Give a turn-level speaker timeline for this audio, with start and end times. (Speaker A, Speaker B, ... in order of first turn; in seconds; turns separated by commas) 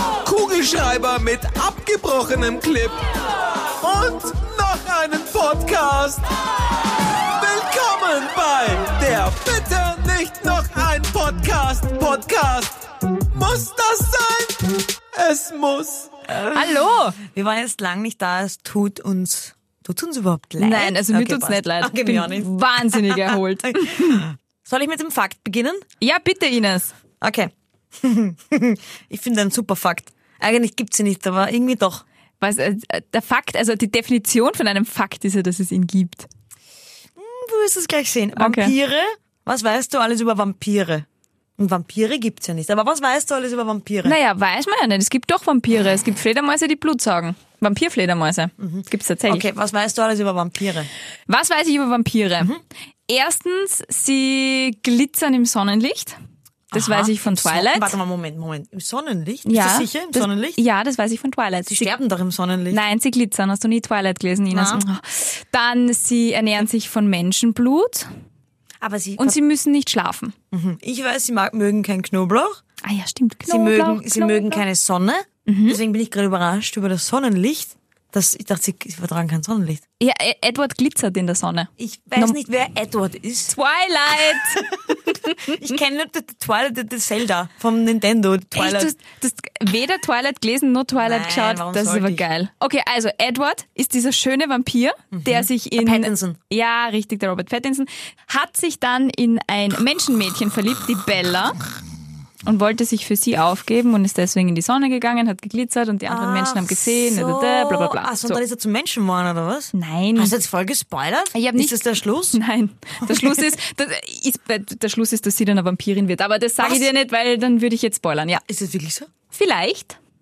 Speaker A: 0.2-3.0, Speaker A: 3.8-6.2, Speaker A: 7.1-16.2, Speaker B: 16.3-17.2, Speaker C: 16.3-25.8, Speaker B: 20.6-24.2, Speaker B: 26.0-26.9, Speaker C: 27.2-32.0, Speaker B: 32.4-36.3, Speaker C: 37.1-41.0, Speaker B: 38.4-38.7, Speaker C: 41.6-44.1, Speaker B: 44.0-49.4, Speaker C: 48.6-50.9, Speaker B: 51.3-52.5, Speaker B: 53.1-56.2, Speaker B: 56.7-57.9, Speaker C: 56.7-60.6, Speaker B: 59.5-61.9, Speaker C: 61.7-62.8, Speaker B: 62.7-68.1, Speaker C: 64.5-64.8, Speaker C: 68.8-69.4, Speaker B: 69.2-70.3, Speaker C: 70.5-72.6, Speaker B: 72.8-74.6, Speaker C: 73.4-79.8, Speaker B: 75.5-75.8, Speaker B: 80.0-82.4, Speaker C: 81.8-83.5, Speaker B: 83.5-85.7, Speaker C: 84.2-84.9, Speaker C: 85.4-88.9, Speaker B: 88.5-101.6, Speaker C: 91.0-92.2, Speaker C: 95.1-96.4, Speaker B: 102.4-108.4, Speaker C: 106.1-112.4, Speaker B: 109.7-110.3, Speaker B: 111.3-118.4, Speaker C: 113.0-113.5, Speaker C: 116.6-116.9, Speaker C: 118.5-119.1, Speaker B: 119.3-120.0